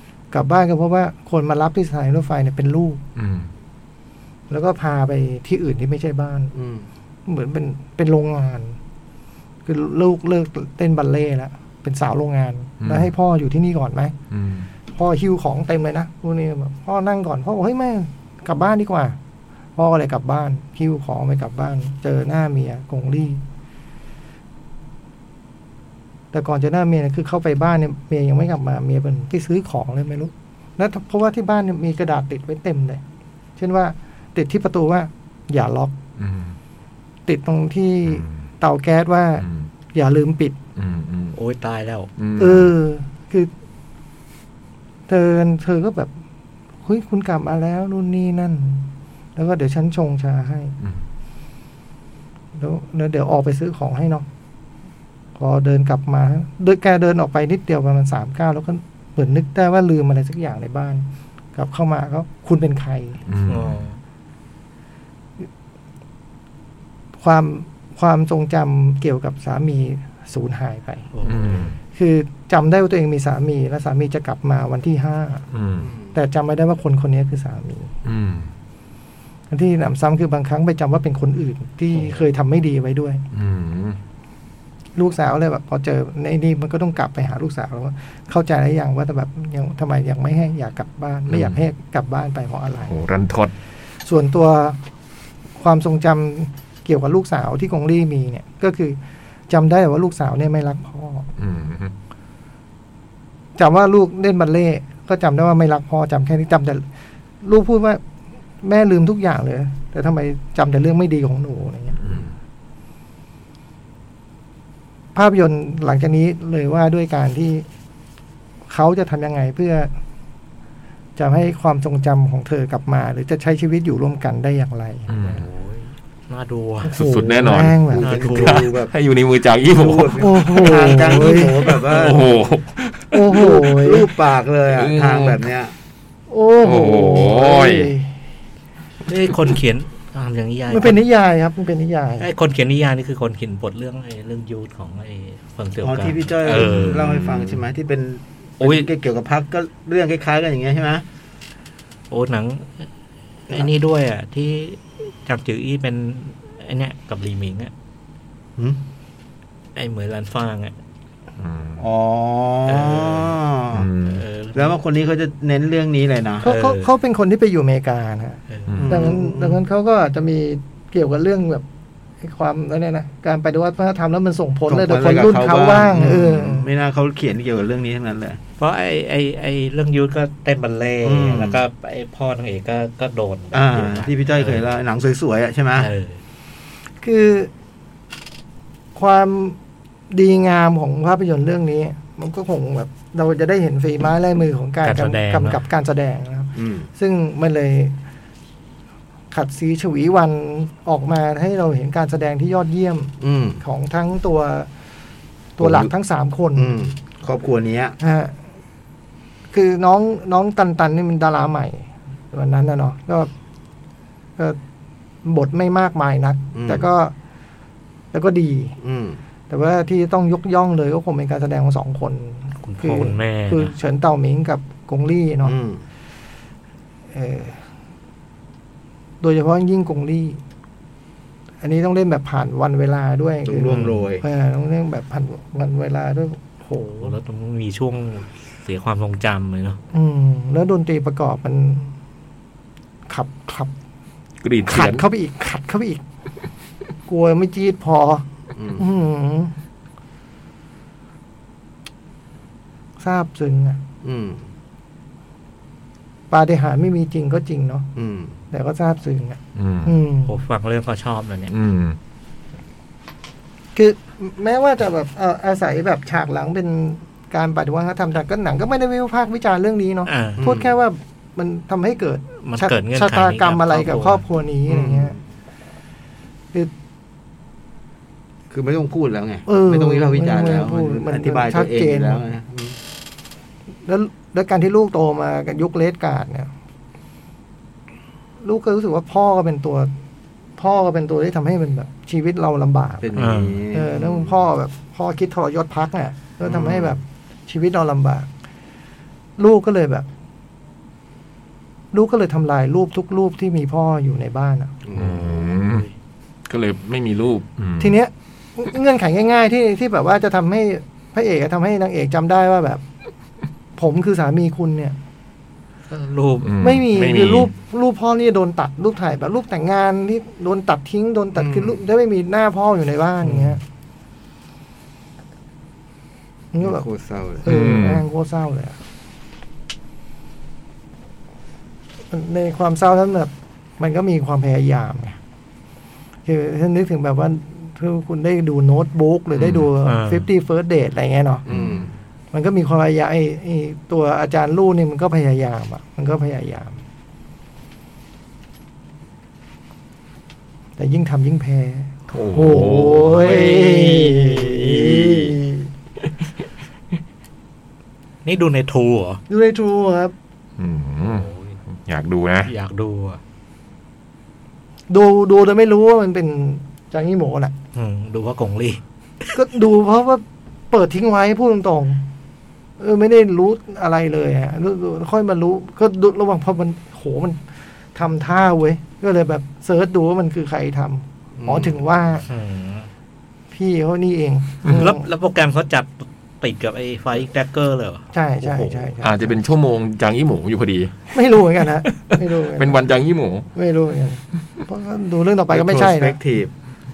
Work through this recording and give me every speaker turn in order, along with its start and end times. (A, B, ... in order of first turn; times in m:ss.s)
0:00.3-0:03.0 A
0:03.2-0:03.5 B
0:04.5-0:06.5 A
0:06.5-0:06.9 C
0:07.3-0:08.8 A
0:09.6-0:14.2 A
0:12.8-0:13.1 B
0:14.3-0:14.7 B
0:14.9-0:19.2 A
0:19.8-0:23.4 A
0:26.3-0:33.0 A
0:33.6-0:35.9 A
0:36.2-0:36.6 B
0:37.3-0:40.6 A
0:38.1-0:38.3 B
0:40.8-0:41.4 B
0:41.4-0:42.1 D
0:42.2-0:42.7 B
0:42.4-0:43.5 A
0:45.1-0:46.1 A
0:46.8-0:50.7 A
0:52.6-0:54.3 A
0:55.4-1:03.2 A
1:03.3-1:03.8 B
1:03.5-1:04.0 D
1:07.2-1:11.1 A
1:11.1-1:11.7 D
1:11.2-1:11.8 B
1:11.9-1:15.4 A
1:15.5-1:15.9 B
1:15.8-1:16.2 C
1:16.1-1:17.9 A
1:18.0-1:18.5 B
1:19.5-1:23.2 A
1:23.3-1:24.0 B
1:25.0-1:33.0 A
1:31.3-1:31.6 B
1:32.9-1:33.5 B
1:34.0-1:34.8 A
1:35.6-1:39.0 A
1:39.5-1:41.3 A
1:41.4-1:41.9 B
1:43.6-1:46.9 A
1:47.4-1:48.0 A
1:48.6-1:52.0 A
1:52.0-1:52.3 B
1:55.2-1:57.6 A
1:58.7-1:59.9 A
2:01.2-2:05.1 A
2:05.1-2:05.5 B
2:05.2-2:06.9 D
2:06.8-2:08.1 A
2:06.9-2:10.9 B
2:07.9-2:08.9 C
2:08.0-2:08.7 D
2:09.7-2:12.3 C
2:10.2-2:11.7 A
2:11.7-2:13.2 B
2:13.1-2:14.1 A
2:13.3-2:15.7 C
2:14.7-2:15.4 B
2:16.3-2:18.2 A
2:16.6-2:17.9 B
2:19.1-2:21.0 D
2:20.7-2:22.3 A
2:22.2-2:27.1 D
2:25.8-2:31.0 C
2:26.5-2:27.7 B
2:28.6-2:28.9 D
2:32.1-2:32.9 D
2:33.5-2:37.7 D
2:39.7-2:40.7 D
2:41.4-2:41.8 B
2:41.8-2:43.9 C
2:42.6-2:43.4 D
2:43.7-2:44.2 B
2:44.0-2:44.8 D
2:44.5-2:46.5 C
2:46.4-2:51.6 A
2:46.4-2:46.9 D
2:48.5-2:48.8 D
2:48.7-2:49.1 B
2:48.8-2:49.6 C
2:52.2-2:56.7 A
2:54.7-2:58.4 C
2:58.6-3:04.7 D
3:01.0-3:01.6 C
3:03.5-3:05.9 C
3:05.8-3:06.2 D
3:07.0-3:07.5 A
3:08.9-3:09.6 A
3:10.1-3:18.0 A
3:14.8-3:15.6 D
3:16.6-3:16.9 C
3:19.3-3:24.7 A
3:23.2-3:23.6 C
3:25.6-3:26.9 A
3:25.6-3:25.9 C
3:26.6-3:28.0 C
3:28.0-3:28.4 A
3:29.5-3:33.3 A
3:35.2-3:37.1 A
3:36.5-3:36.9 C
3:38.1-3:38.8 A
3:38.8-3:39.2 C
3:39.5-3:45.6 A
3:42.6-3:43.7 D
3:45.4-3:45.8 C
3:47.1-3:47.6 A
3:49.2-3:50.4 A
3:51.6-3:57.2 A
3:53.4-3:54.2 C
3:53.7-3:54.0 D
3:57.0-3:59.8 D
3:59.9-4:01.9 A
4:03.1-4:03.7 A
4:04.4-4:05.0 B
4:04.6-4:06.0 A
4:07.1-4:09.5 A
4:08.6-4:08.8 C
4:13.0-4:13.8 A
4:14.0-4:14.4 C
4:16.3-4:17.9 A
4:18.0-4:18.4 C
4:18.5-4:20.3 A
4:19.6-4:20.0 B
4:20.3-4:21.5 D
4:21.5-4:22.0 B
4:23.7-4:35.2 A
4:30.1-4:30.5 D
4:30.4-4:30.7 C
4:32.4-4:34.2 D
4:34.7-4:35.2 C
4:38.5-4:42.8 C
4:39.5-4:42.2 A
4:43.9-4:46.5 A
4:48.4-4:49.9 A
4:50.6-4:53.1 A
4:53.0-4:54.3 C
4:53.2-4:53.6 D
4:53.7-4:58.3 A
4:56.4-4:57.0 C
4:59.4-5:00.1 A
5:01.9-5:04.7 A
5:04.8-5:05.5 C
5:04.9-5:05.9 B
5:05.6-5:05.9 D
5:06.5-5:08.0 B
5:07.8-5:12.8 A
5:13.8-5:15.0 A
5:15.9-5:16.5 D
5:16.4-5:17.5 B
5:16.6-5:23.6 A
5:21.4-5:21.8 C
5:23.2-5:23.6 D
5:26.5-5:26.9 A
5:26.6-5:27.4 C
5:27.4-5:28.8 A
5:27.4-5:28.0 B
5:32.1-5:35.2 A
5:36.3-5:41.4 A
5:39.4-5:39.6 B
5:39.8-5:40.3 D
5:41.5-5:41.9 B
5:41.5-5:41.9 C
5:42.3-5:46.8 A
5:50.8-5:55.7 A
5:52.1-5:55.2 B
5:58.2-5:59.2 D
5:59.3-6:00.1 A
6:00.6-6:01.3 B
6:01.1-6:01.6 D
6:01.9-6:02.5 B
6:02.4-6:03.2 D
6:04.9-6:07.5 A
6:07.7-6:08.8 D
6:09.3-6:12.0 A
6:12.8-6:17.4 A
6:17.9-6:22.3 A
6:21.4-6:21.8 C
6:22.3-6:22.9 D
6:23.5-6:25.1 A
6:24.7-6:28.1 D
6:28.1-6:29.3 A
6:28.4-6:31.0 B
6:31.1-6:32.8 A
6:32.6-6:33.5 B
6:33.5-6:36.2 A
6:35.5-6:36.5 C